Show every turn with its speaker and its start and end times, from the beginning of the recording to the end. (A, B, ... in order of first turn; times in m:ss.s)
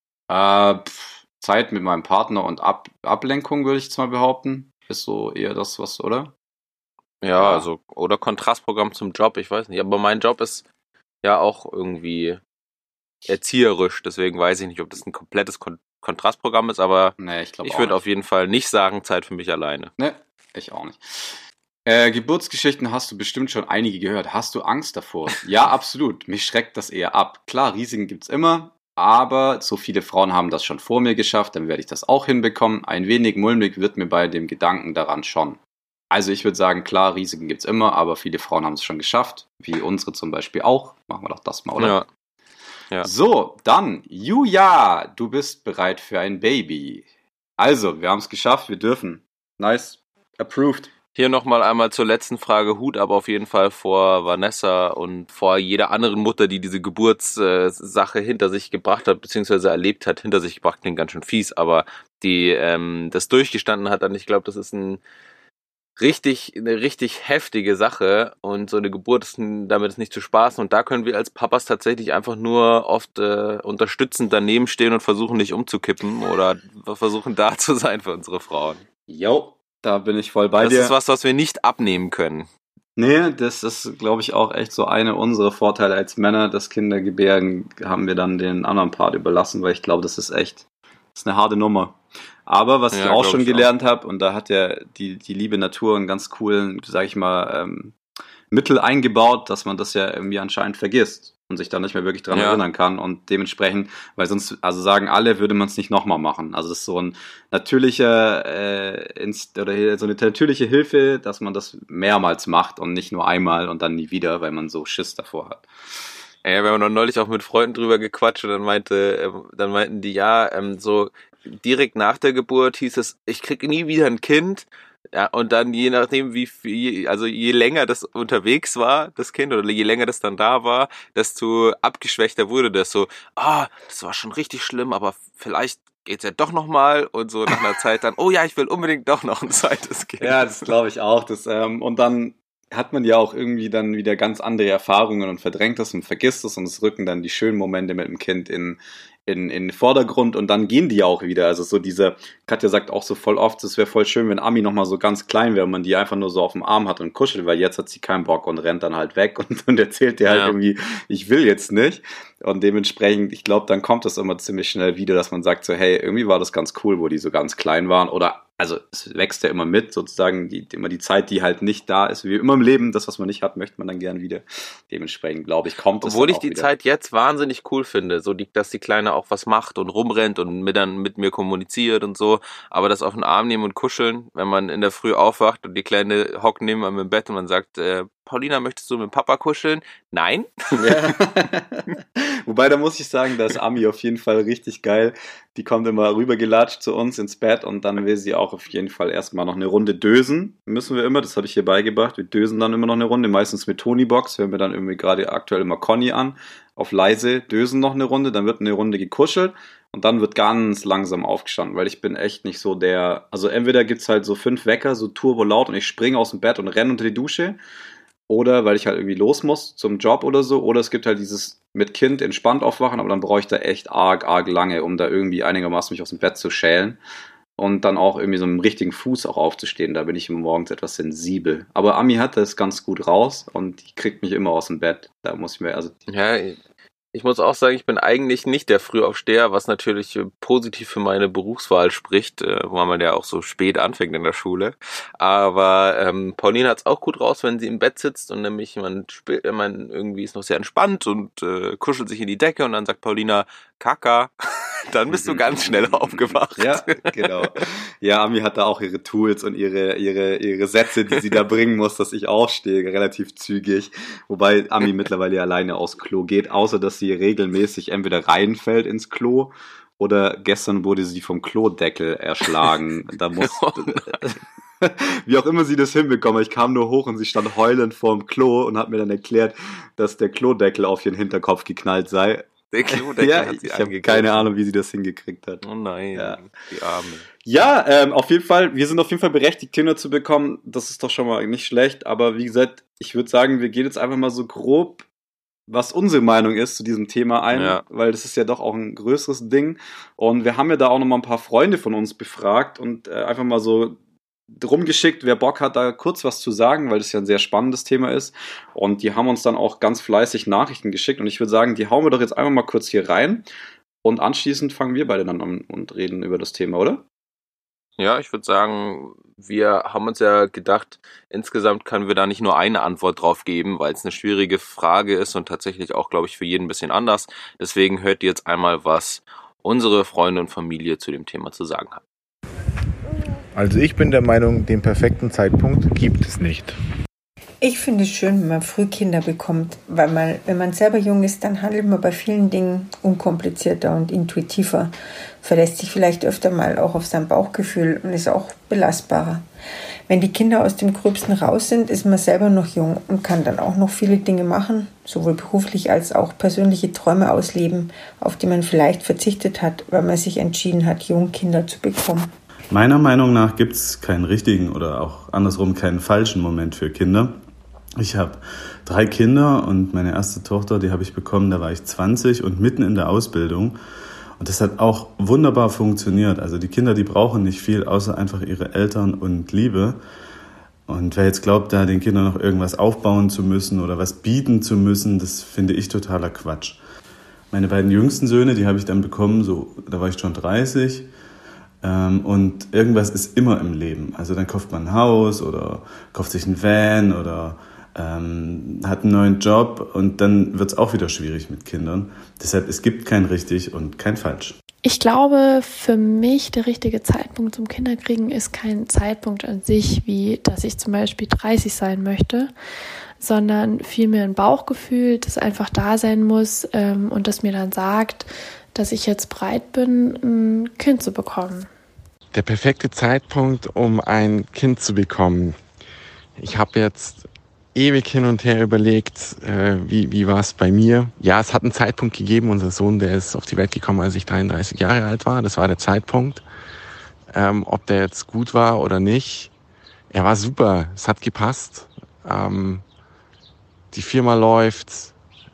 0:00.3-0:06.3 A
0:07.2-0:10.6 B
0:07.4-0:07.7 A
0:11.2-0:12.4 B
0:13.3-0:19.9 B
0:17.2-0:18.0 A
0:20.0-0:35.6 A
0:36.1-0:42.0 A
0:41.8-0:42.1 B
0:43.0-0:47.1 A
0:47.6-0:50.9 A
0:51.2-1:05.0 B
1:06.0-1:18.8 B
1:19.1-1:20.9 A
1:20.6-1:22.5 B
1:23.0-1:38.0 A
1:32.9-1:33.7 B
1:38.5-1:55.7 A
1:42.3-1:42.6 B
1:56.4-2:20.5 B
2:20.2-2:56.7 A
2:40.3-2:40.6 B
2:56.0-3:10.9 B
3:10.8-3:37.6 A
3:38.3-3:47.0 A
3:47.6-3:56.0 A
3:56.1-3:56.6 B
3:57.1-4:17.6 B
4:15.1-4:46.4 A
4:33.4-4:34.2 B
4:42.7-4:44.5 B
4:45.6-4:47.3 B
4:47.4-4:55.1 A
4:55.7-5:04.0 A
4:57.5-4:57.8 B
5:04.5-5:13.5 A
5:14.0-5:17.0 A
5:18.0-5:32.0 B
5:33.5-5:36.8 C
5:37.6-5:49.4 D
5:50.1-6:02.3 D
6:02.7-6:07.4 E
6:08.0-6:13.8 E
6:14.4-6:20.0 E
6:20.9-6:26.8 E
6:27.5-6:31.1 E
6:31.8-6:44.6 E
6:44.8-6:52.6 F
6:53.2-7:01.7 F
7:02.3-7:05.6 G
7:06.4-7:16.4 G
7:17.3-7:19.5 G
7:20.1-7:22.8 G
7:23.9-7:25.1 G